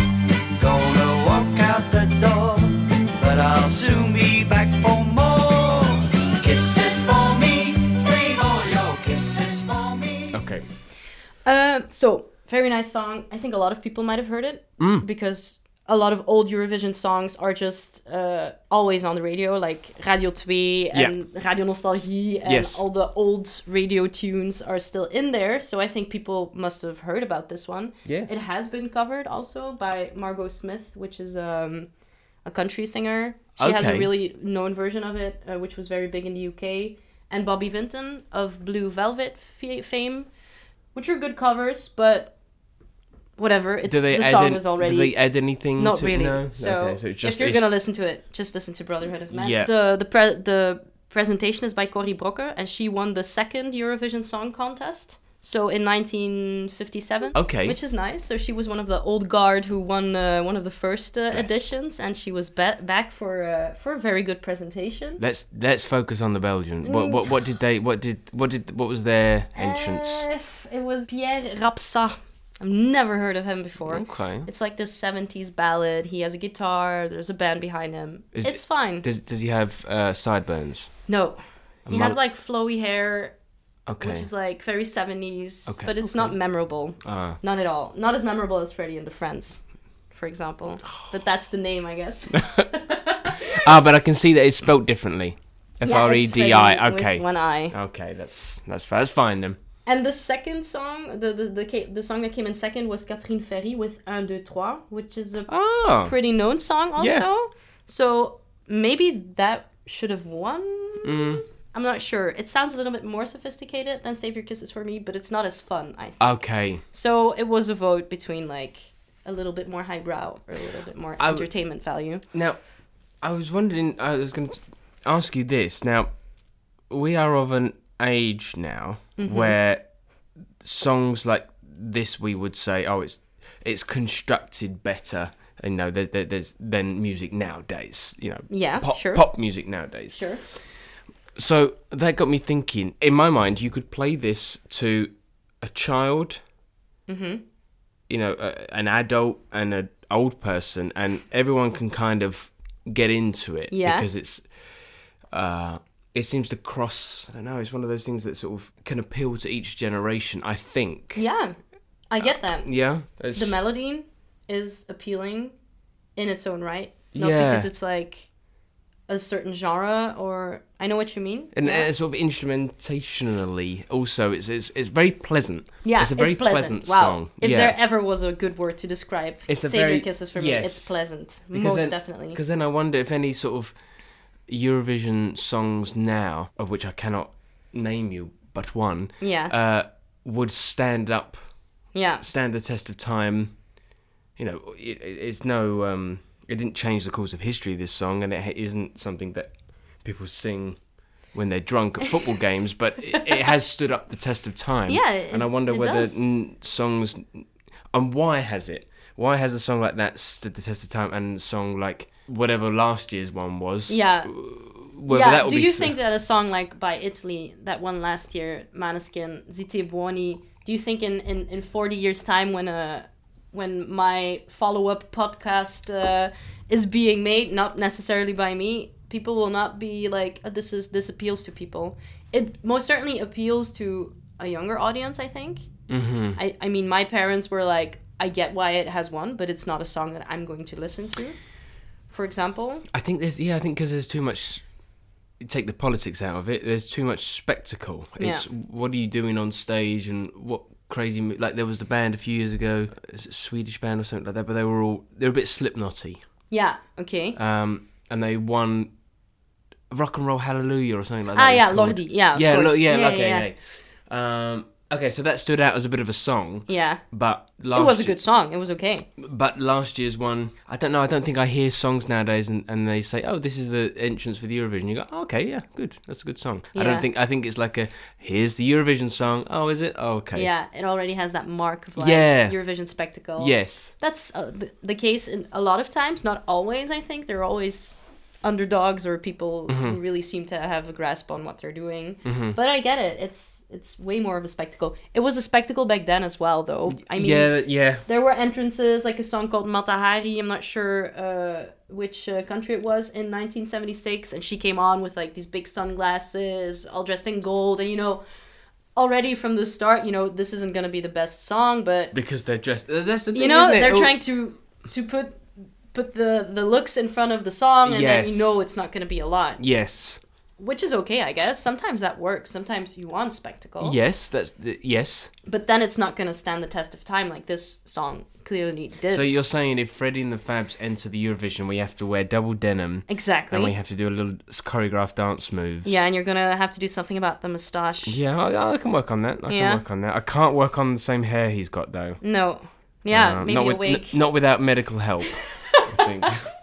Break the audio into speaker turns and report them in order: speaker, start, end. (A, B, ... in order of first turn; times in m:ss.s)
0:00.5-0:10.4 A
0:10.3-0:10.6 B
0:11.4-0:31.9 C
0:14.8-0:15.0 B
0:22.4-0:22.8 B
0:28.0-0:28.3 B
0:32.4-0:40.3 C
0:33.6-0:34.1 B
0:40.9-0:42.3 C
0:43.4-1:05.2 C
0:43.9-0:47.6 B
0:49.3-0:49.7 B
0:57.3-0:57.8 B
1:01.3-1:01.7 B
1:05.2-1:10.3 B
1:06.8-1:07.3 C
1:09.6-1:19.0 C
1:13.8-1:14.5 B
1:18.3-1:21.0 B
1:21.1-1:23.4 C
1:21.8-1:22.2 B
1:23.9-1:24.3 B
1:24.0-1:33.7 C
1:25.7-1:26.4 B
1:27.0-1:27.4 B
1:32.3-1:32.7 B
1:33.2-1:39.6 B
1:35.8-1:37.7 C
1:39.8-2:02.2 C
1:45.5-1:46.1 B
1:47.0-1:47.2 B
1:51.0-1:51.4 B
1:56.2-1:56.8 B
2:01.2-2:01.5 B
2:02.3-2:02.6 B
2:03.2-2:06.1 B
2:06.9-2:09.8 B
2:09.2-2:09.6 C
2:10.6-2:26.4 B
2:18.5-2:19.3 C
2:20.1-2:20.4 C
2:27.1-2:27.4 C
2:28.1-2:34.5 B
2:33.7-2:34.0 C
2:35.3-2:41.2 B
2:41.2-2:41.6 C
2:42.1-2:42.7 C
2:42.2-2:43.6 B
2:43.3-2:45.5 C
2:46.2-2:48.3 C
2:47.1-2:47.7 B
2:49.1-2:51.9 C
2:51.5-2:57.8 B
2:55.8-3:02.4 C
2:59.5-3:01.0 B
3:01.5-3:03.8 B
3:04.4-3:11.4 B
3:09.2-3:09.5 C
3:11.9-3:12.2 C
3:12.2-3:13.6 B
3:14.4-3:19.5 B
3:20.0-3:20.8 B
3:21.3-3:36.0 B
3:24.9-3:26.2 C
3:33.9-3:34.3 C
3:35.1-3:55.7 C
3:55.9-3:56.4 B
3:56.4-4:01.4 C
4:02.1-4:02.8 C
4:02.9-4:04.6 B
4:05.4-4:16.2 B
4:08.2-4:08.4 C
4:16.5-4:17.4 C
4:17.4-4:18.9 B
4:19.9-4:28.2 B
4:21.3-4:23.5 C
4:26.7-4:27.0 C
4:27.7-4:29.1 C
4:29.2-4:40.5 B
4:36.7-4:37.1 C
4:40.3-5:08.2 C
4:42.0-4:42.6 B
4:43.4-4:43.9 B
4:49.7-4:50.0 B
4:52.2-4:52.6 B
4:56.9-4:58.0 B
5:08.9-5:12.1 C
5:12.1-5:14.2 B
5:13.3-5:19.6 C
5:17.8-5:18.5 B
5:19.6-5:20.2 B
5:20.6-5:24.0 C
5:23.8-5:25.3 B
5:25.5-5:29.3 C
5:29.1-5:36.0 B
5:33.1-5:33.7 C
5:35.8-5:38.2 C
5:38.1-5:42.2 B
5:39.5-5:39.8 C
5:42.2-5:44.2 C
5:43.1-5:46.5 B
5:45.4-5:46.3 C